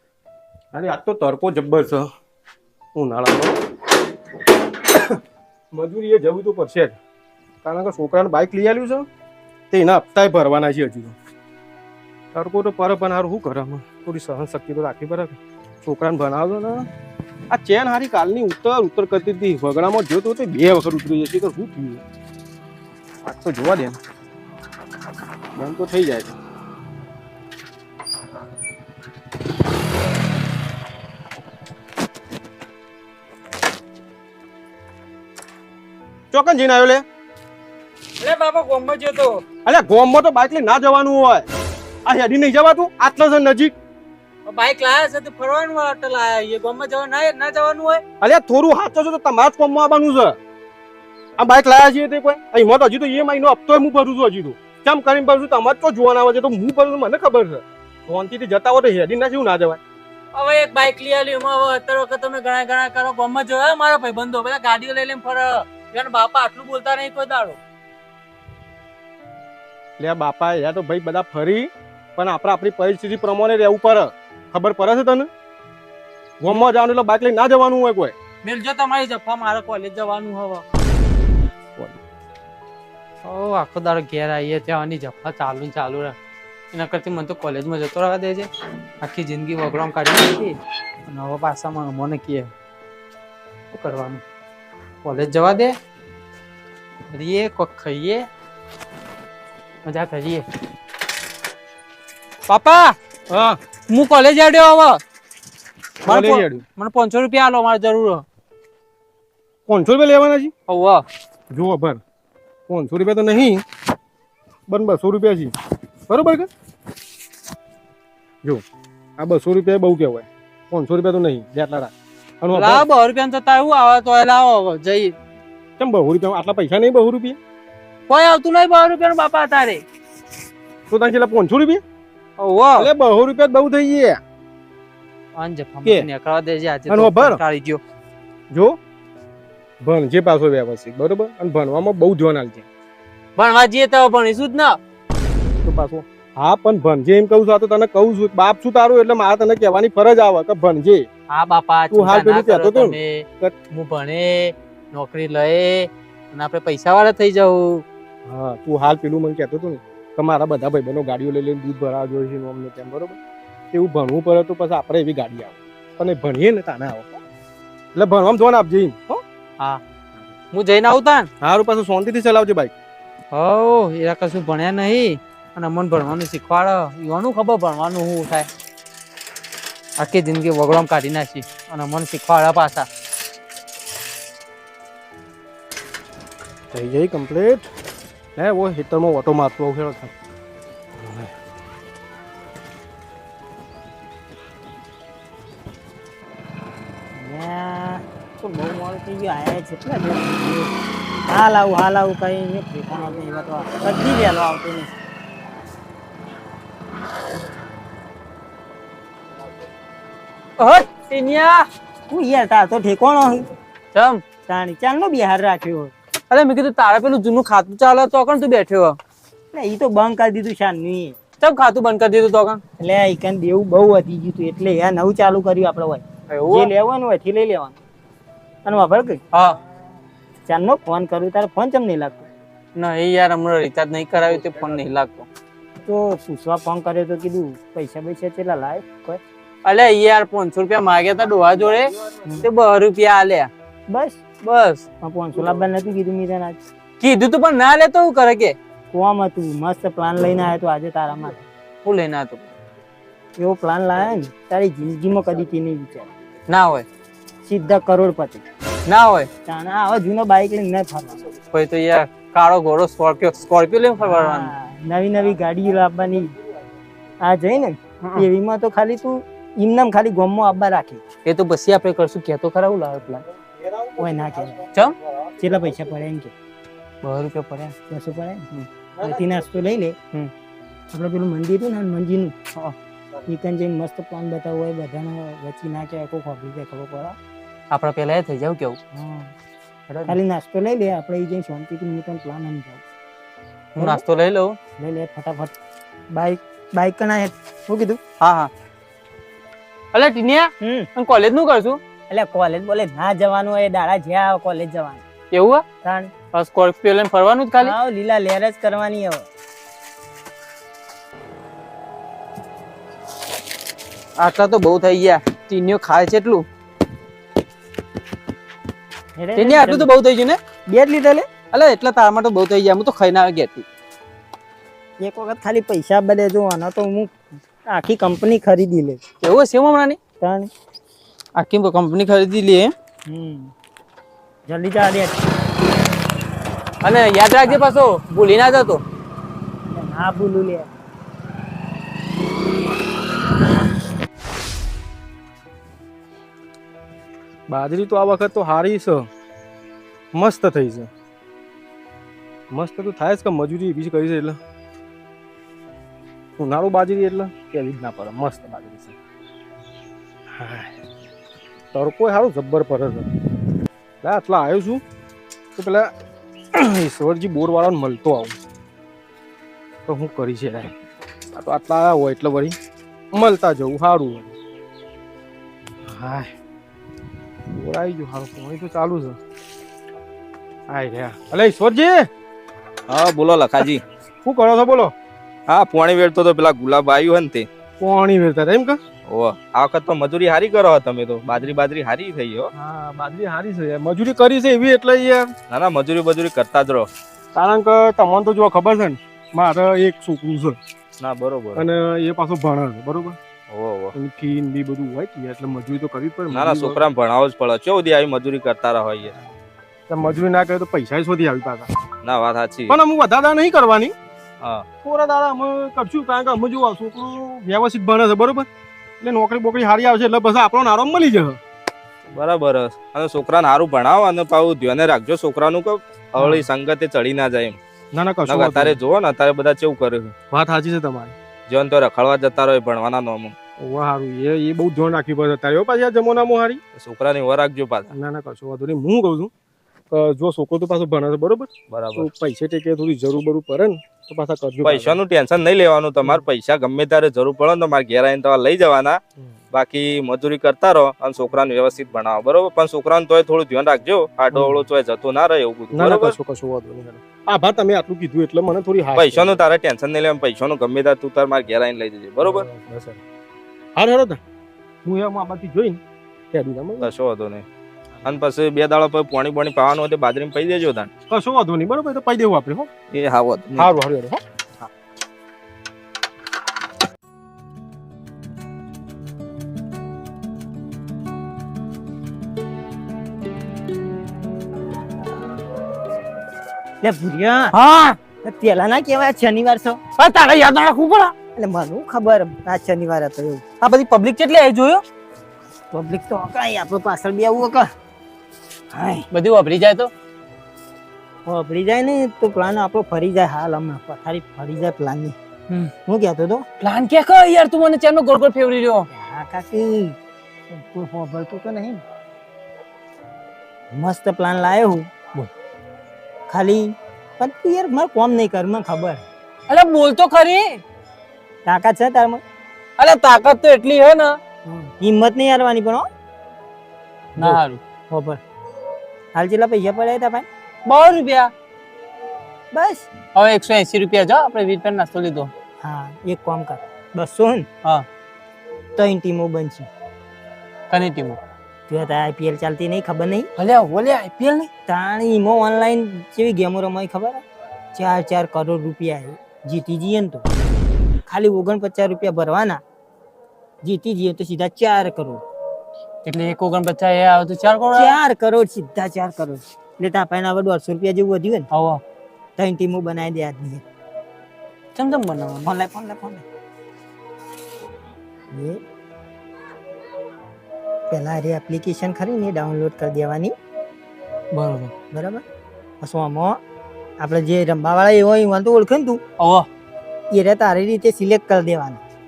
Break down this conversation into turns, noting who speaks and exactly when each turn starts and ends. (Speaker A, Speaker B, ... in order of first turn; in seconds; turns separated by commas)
Speaker A: 0.7-2.1, Speaker A: 3.0-3.6, Speaker A: 4.9-5.2, Speaker A: 5.7-7.0, Speaker A: 7.6-9.1, Speaker A: 9.7-11.2, Speaker A: 12.3-16.9, Speaker A: 17.5-22.0, Speaker A: 23.2-24.0, Speaker A: 25.6-26.4, Speaker A: 36.3-37.0, Speaker B: 38.2-39.4, Speaker A: 39.6-41.5, Speaker A: 42.1-43.8, Speaker B: 44.5-48.0, Speaker A: 48.2-50.4, Speaker A: 51.4-59.8, Speaker B: 60.3-67.6, Speaker A: 70.0-75.3, Speaker A: 76.4-78.2, Speaker B: 78.4-80.6, Speaker B: 83.2-86.2, Speaker B: 86.7-88.5, Speaker B: 89.0-90.6, Speaker B: 91.1-92.5, Speaker B: 93.7-94.2, Speaker B: 95.0-95.7, Speaker B: 97.1-98.3, Speaker B: 99.8-100.5, Speaker B: 102.5-103.0, Speaker A: 103.3-103.6, Speaker B: 103.9-105.0, Speaker A: 106.0-106.6, Speaker B: 106.1-108.2, Speaker A: 109.7-110.5, Speaker B: 110.7-111.0, Speaker A: 111.5-112.0, Speaker A: 112.7-113.6, Speaker A: 114.7-115.5, Speaker A: 116.1-116.5, Speaker A: 119.2-122.9, Speaker B: 122.5-125.2, Speaker A: 125.8-127.4, Speaker B: 128.1-129.8, Speaker A: 130.9-131.8, Speaker B: 132.4-132.9, Speaker A: 132.8-134.2, Speaker B: 135.4-137.8, Speaker A: 136.9-137.4, Speaker A: 138.5-138.8, Speaker A: 139.8-142.7, Speaker B: 143.4-144.8, Speaker A: 145.5-151.1, Speaker B: 151.3-157.8, Speaker A: 151.9-153.6, Speaker A: 158.3-163.2, Speaker A: 163.7-167.2, Speaker A: 167.9-169.2, Speaker B: 170.5-171.3, Speaker A: 171.4-172.7, Speaker B: 173.3-178.5, Speaker B: 180.0-182.9, Speaker A: 186.7-187.7, Speaker A: 188.4-190.1, Speaker A: 191.0-191.3, Speaker C: 197.2-200.7, Speaker C: 201.3-204.9, Speaker B: 210.6-211.7, Speaker C: 212.1-213.4, Speaker B: 213.9-214.2, Speaker C: 214.5-215.9, Speaker B: 216.3-219.0, Speaker C: 219.5-221.2, Speaker B: 221.4-222.6, Speaker C: 222.8-227.8, Speaker B: 226.3-226.7, Speaker C: 228.7-229.2, Speaker B: 229.3-229.6, Speaker C: 230.5-232.3, Speaker B: 232.8-235.3, Speaker C: 235.8-239.2, Speaker B: 239.7-243.5, Speaker C: 243.9-244.2, Speaker B: 244.4-244.8, Speaker C: 245.0-246.6, Speaker B: 247.0-248.6, Speaker C: 248.9-251.4, Speaker B: 251.8-252.4, Speaker C: 253.4-256.1, Speaker B: 256.5-256.9, Speaker C: 257.5-258.4, Speaker B: 258.9-259.3, Speaker C: 259.5-261.3, Speaker B: 261.5-264.5, Speaker C: 264.0-266.3, Speaker C: 267.2-271.0, Speaker B: 271.3-273.3, Speaker C: 273.9-274.6, Speaker C: 275.4-276.3, Speaker B: 277.0-277.8, Speaker C: 277.9-280.0, Speaker C: 280.9-282.4, Speaker C: 283.3-287.2, Speaker B: 287.7-288.8, Speaker C: 288.9-289.3, Speaker B: 289.9-290.2, Speaker C: 290.1-292.8, Speaker B: 293.8-294.6, Speaker C: 294.8-295.6, Speaker C: 296.1-298.0, Speaker B: 298.2-298.5, Speaker B: 299.9-301.8, Speaker C: 300.6-300.9, Speaker C: 302.1-305.0, Speaker B: 305.3-305.6, Speaker C: 305.8-306.1, Speaker B: 306.3-307.7, Speaker C: 307.6-309.3, Speaker B: 314.2-316.5, Speaker C: 319.2-319.9, Speaker B: 319.4-320.4, Speaker C: 320.7-321.3, Speaker B: 321.5-323.6, Speaker C: 325.0-327.1, Speaker C: 327.7-329.0, Speaker B: 329.2-330.0, Speaker C: 330.2-330.5, Speaker B: 331.4-332.7, Speaker C: 333.1-333.5, Speaker C: 334.5-335.2, Speaker B: 336.8-338.8, Speaker C: 339.7-340.7, Speaker A: 347.5-349.1, Speaker A: 350.1-350.9, Speaker A: 352.5-354.4, Speaker A: 356.4-359.0, Speaker A: 360.4-360.8, Speaker A: 361.7-363.1, Speaker A: 364.0-364.8, Speaker A: 365.6-365.9, Speaker A: 366.5-368.4, Speaker A: 369.9-370.7, Speaker A: 371.3-372.6, Speaker A: 373.1-374.3, Speaker A: 375.9-376.3, Speaker A: 377.5-379.2, Speaker A: 380.7-382.1, Speaker D: 382.9-383.8, Speaker A: 384.2-384.9, Speaker D: 385.5-387.5, Speaker A: 387.8-388.8, Speaker D: 389.1-392.5, Speaker A: 392.5-395.3, Speaker D: 395.5-396.9, Speaker A: 397.3-400.6, Speaker D: 401.0-401.7, Speaker A: 401.6-403.2, Speaker D: 403.5-403.9, Speaker A: 403.9-406.8, Speaker D: 406.3-409.1, Speaker A: 409.9-411.7, Speaker D: 412.0-412.8, Speaker A: 412.7-413.9, Speaker A: 414.8-418.5, Speaker A: 419.0-421.4, Speaker D: 422.1-427.6, Speaker A: 426.2-426.5, Speaker A: 427.9-428.8, Speaker D: 428.3-430.1, Speaker A: 430.3-431.1, Speaker D: 431.5-433.4, Speaker A: 433.6-436.6, Speaker D: 436.8-437.9, Speaker A: 437.9-439.3, Speaker A: 439.9-445.0, Speaker D: 441.7-442.1, Speaker D: 444.6-449.0, Speaker D: 449.5-456.2, Speaker A: 454.3-454.7, Speaker A: 455.7-459.4, Speaker D: 459.0-462.4, Speaker A: 462.2-463.0, Speaker A: 463.8-464.2, Speaker A: 464.9-465.8, Speaker A: 466.3-466.9, Speaker D: 466.8-467.4, Speaker D: 468.1-470.9, Speaker A: 471.1-472.7, Speaker D: 472.9-473.7, Speaker A: 473.6-474.7, Speaker C: 486.8-487.5, Speaker B: 487.5-488.0, Speaker C: 488.1-489.8, Speaker B: 490.0-491.1, Speaker C: 491.4-493.4, Speaker B: 493.6-494.8, Speaker C: 495.7-497.7, Speaker C: 498.7-499.1, Speaker B: 499.1-499.9, Speaker C: 501.3-505.1, Speaker C: 505.9-506.4, Speaker B: 506.6-508.9, Speaker C: 508.9-510.0, Speaker C: 510.5-511.8, Speaker C: 513.7-514.9, Speaker C: 516.3-519.0, Speaker B: 519.5-520.6, Speaker C: 521.5-522.2, Speaker B: 522.8-524.2, Speaker C: 524.5-525.9, Speaker B: 527.2-527.6, Speaker C: 527.2-528.2, Speaker C: 529.1-530.3, Speaker B: 530.7-531.3, Speaker C: 532.5-532.9, Speaker B: 533.1-535.3, Speaker C: 535.6-537.5, Speaker C: 538.8-539.7, Speaker B: 540.7-541.2, Speaker C: 541.7-543.3, Speaker B: 543.4-544.5, Speaker C: 544.7-547.2, Speaker C: 547.8-550.2, Speaker C: 551.1-552.6, Speaker C: 553.6-555.2, Speaker B: 556.0-558.0, Speaker C: 557.7-561.5, Speaker B: 561.5-561.8, Speaker C: 562.4-563.6, Speaker B: 564.8-565.5, Speaker C: 565.4-566.3, Speaker C: 568.3-568.6, Speaker C: 570.9-573.3, Speaker B: 574.3-574.7, Speaker C: 574.9-575.2, Speaker C: 575.8-576.4, Speaker C: 577.0-579.0, Speaker B: 579.2-579.5, Speaker C: 580.1-581.8